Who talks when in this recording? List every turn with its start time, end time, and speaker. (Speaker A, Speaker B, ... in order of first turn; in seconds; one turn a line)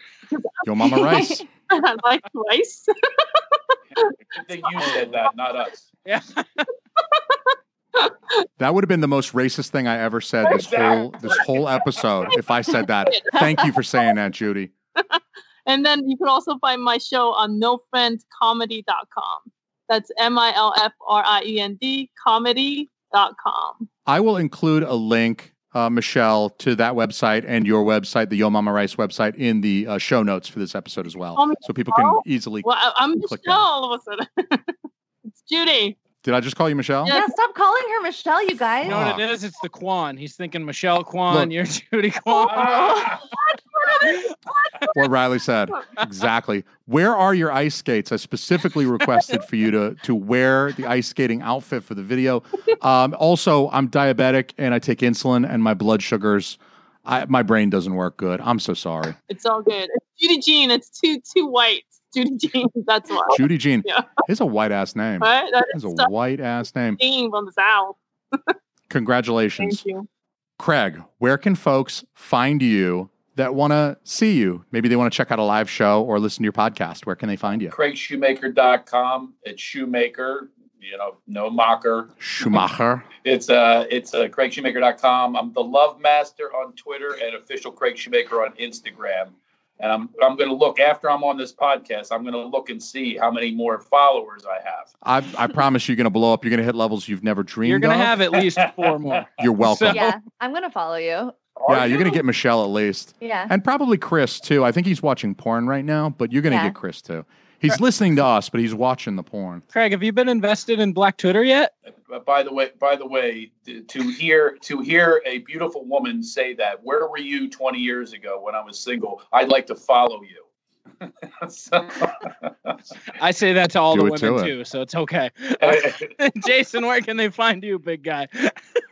Speaker A: 0.3-4.1
Speaker B: 0.6-1.4
Speaker C: 0.9-1.4
Speaker D: 4.3-5.9
Speaker A: 4.7-5.1
Speaker E: 6.0-6.7
Speaker A: 7.0-7.4
Speaker B: 8.6-14.7
Speaker D: 10.5-12.3
Speaker A: 13.0-13.9
Speaker A: 15.0-23.9
Speaker B: 24.1-32.7
Speaker A: 31.3-34.7
Speaker B: 33.2-33.6
Speaker A: 35.4-36.0
Speaker B: 36.2-37.2
Speaker A: 37.0-37.3
Speaker C: 37.1-39.1
Speaker B: 38.8-39.2
Speaker E: 38.8-43.1
Speaker D: 42.5-43.2
Speaker A: 43.3-45.0
Speaker B: 44.9-59.1
Speaker A: 59.3-64.2
Speaker B: 63.3-67.0
Speaker A: 65.2-66.1
Speaker A: 67.0-68.5
Speaker B: 68.9-69.8
Speaker A: 69.6-70.0
Speaker B: 70.6-77.7
Speaker D: 77.7-82.1
Speaker B: 82.2-83.0
Speaker D: 83.2-94.9
Speaker B: 95.0-98.2
Speaker E: 97.6-100.2
Speaker B: 99.4-100.0
Speaker C: 99.9-101.3
Speaker D: 101.6-102.2
Speaker B: 101.7-109.6
Speaker C: 103.2-103.5
Speaker C: 106.5-106.7
Speaker E: 109.7-111.7
Speaker D: 112.1-120.4
Speaker D: 121.4-122.7
Speaker E: 123.2-128.6
Speaker B: 123.9-124.5
Speaker D: 125.6-126.1